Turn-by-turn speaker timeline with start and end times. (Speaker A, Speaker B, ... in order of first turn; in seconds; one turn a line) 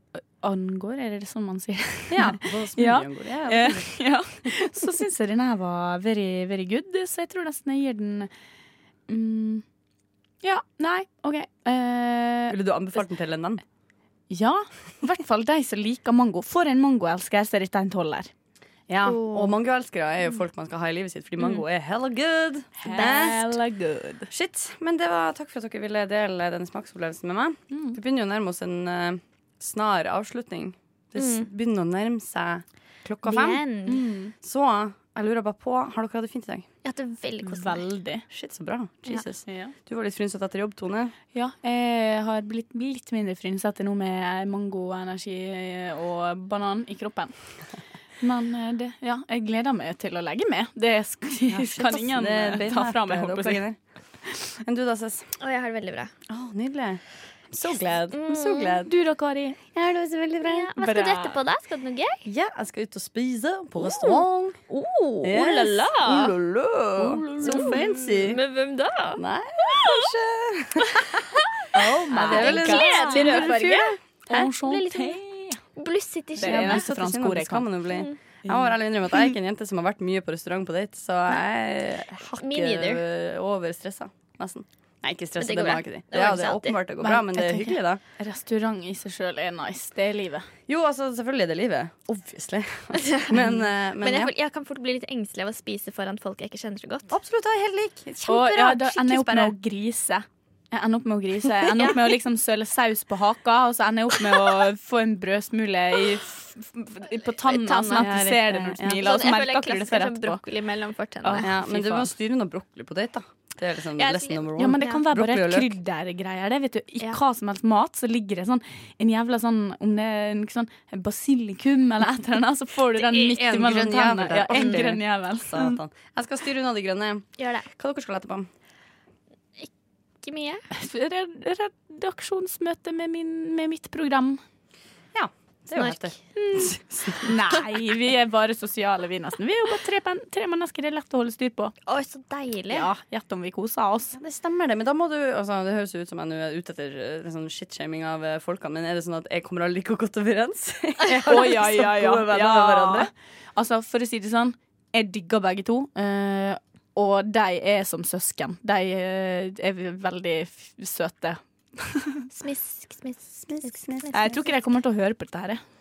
Speaker A: 0.2-8.3
Speaker B: 2.1-4.5
Speaker A: 9.1-9.6
Speaker A: 10.4-12.6
Speaker B: 12.5-13.6
Speaker A: 14.3-18.3
Speaker B: 18.9-23.5
Speaker C: 19.0-19.5
Speaker A: 22.8-24.3
Speaker B: 24.3-33.6
Speaker A: 27.7-28.0
Speaker C: 31.1-31.5
Speaker C: 33.2-34.0
Speaker A: 33.9-34.3
Speaker B: 34.4-36.7
Speaker C: 36.8-37.8
Speaker A: 37.4-38.2
Speaker B: 38.3-41.1
Speaker A: 39.5-39.7
Speaker A: 41.3-47.3
Speaker A: 48.2-53.6
Speaker B: 51.4-53.8
Speaker B: 54.6-55.4
Speaker C: 55.4-56.1
Speaker B: 56.3-58.9
Speaker C: 58.1-58.8
Speaker A: 58.8-59.6
Speaker B: 59.7-60.7
Speaker C: 60.4-62.2
Speaker A: 60.8-61.4
Speaker B: 62.2-64.6
Speaker C: 63.8-66.3
Speaker B: 65.2-68.4
Speaker A: 67.0-67.9
Speaker C: 67.4-70.1
Speaker B: 69.2-71.0
Speaker C: 71.0-71.5
Speaker B: 71.7-74.5
Speaker A: 71.7-75.6
Speaker C: 72.2-73.9
Speaker C: 74.6-75.2
Speaker C: 75.8-76.8
Speaker A: 76.4-77.7
Speaker B: 76.4-88.0
Speaker C: 77.9-78.2
Speaker A: 78.5-78.7
Speaker C: 82.4-83.0
Speaker C: 85.4-86.8
Speaker A: 87.0-90.5
Speaker B: 90.7-94.3
Speaker C: 92.9-93.4
Speaker C: 94.0-97.1
Speaker B: 97.1-99.5
Speaker A: 98.2-110.4
Speaker B: 107.4-109.1
Speaker C: 109.0-111.5
Speaker A: 111.2-112.1
Speaker B: 111.4-115.7
Speaker C: 114.0-115.0
Speaker A: 114.6-125.8
Speaker B: 123.0-128.5
Speaker C: 124.5-124.8
Speaker C: 127.4-127.7
Speaker C: 130.2-130.7
Speaker A: 130.7-134.4
Speaker B: 135.1-137.3
Speaker C: 135.7-136.1
Speaker A: 136.3-141.7
Speaker C: 141.9-142.9
Speaker A: 142.7-144.2
Speaker B: 144.1-153.1
Speaker A: 151.2-162.1
Speaker C: 162.3-164.2
Speaker B: 163.5-164.1
Speaker A: 164.1-165.6